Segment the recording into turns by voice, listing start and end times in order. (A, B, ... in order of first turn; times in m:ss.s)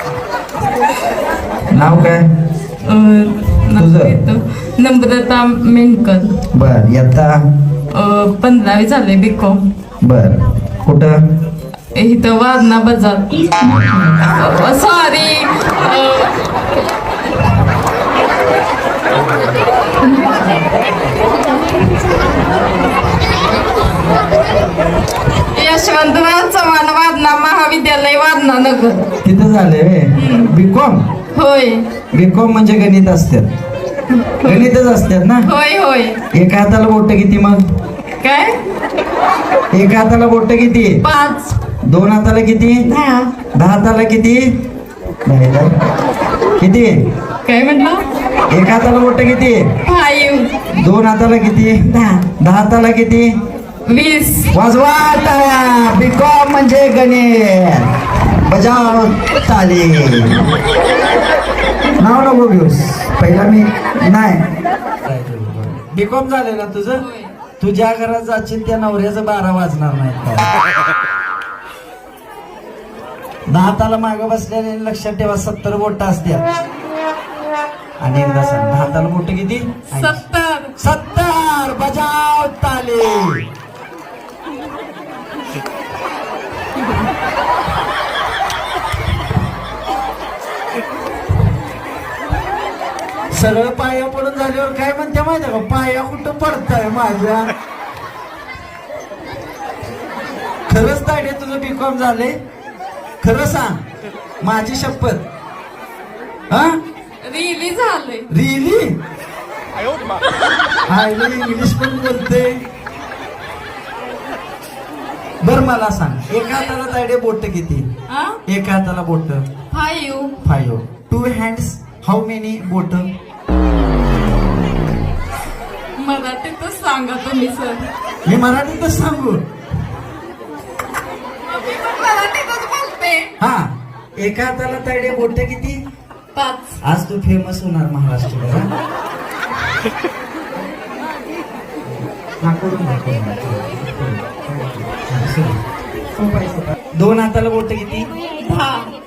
0:01.7-0:02.3 A
0:02.8-0:06.4 B
0:03.8-0:04.2 A
0:06.5-0:07.4 A
0:07.9-0:09.7 B
0:10.0-0:11.2 A
0:12.0-0:16.4 B
0:25.5-0:29.1 B
0:29.2-0:31.0 A
0:30.2-0:30.5 B
0:31.3-0:31.9 B
0:32.1-0:33.5 A
0:34.2-0:34.7 B
0:34.4-0:35.5 A
0:35.5-0:36.2 B
0:36.3-0:37.6 A
0:38.2-0:38.6 B
0:39.7-0:41.0 A
0:41.0-0:41.6 B
0:41.9-0:42.9 A
0:42.9-0:43.3 B
0:43.5-0:44.5 A
0:45.3-0:45.7 A
0:46.6-0:46.9 A
0:47.4-0:48.1 B
0:48.5-0:49.6 A
0:49.8-0:50.5 B
0:50.8-0:53.3 A
0:51.9-0:52.2 B
0:53.9-0:54.5 B
0:54.5-1:00.4 A
1:02.0-1:04.5 A
1:05.1-1:07.0 A
1:07.0-1:07.3 B
1:07.6-1:10.6 A
1:13.5-1:16.5 A
1:18.0-1:20.2 A
1:19.9-1:20.8 B
1:20.8-1:23.4 A
1:33.3-1:37.5 A
1:40.7-1:42.4 A
1:43.2-1:43.8 A
1:44.4-1:45.2 A
1:46.5-1:46.8 A
1:47.2-1:48.3 B
1:48.3-1:48.9 A
1:50.9-1:52.6 A
1:55.4-1:57.9 A
1:58.1-1:58.4 B
1:58.5-1:59.5 A
1:59.7-2:00.4 B
2:00.4-2:03.1 A
2:06.0-2:07.9 B
2:08.3-2:09.4 A
2:11.6-2:13.4 B
2:13.4-2:13.7 A
2:14.2-2:15.8 A
2:16.4-2:16.8 B
2:16.8-2:18.7 A
2:21.9-2:25.6 A
2:26.2-2:28.1 A
2:28.4-2:28.9 B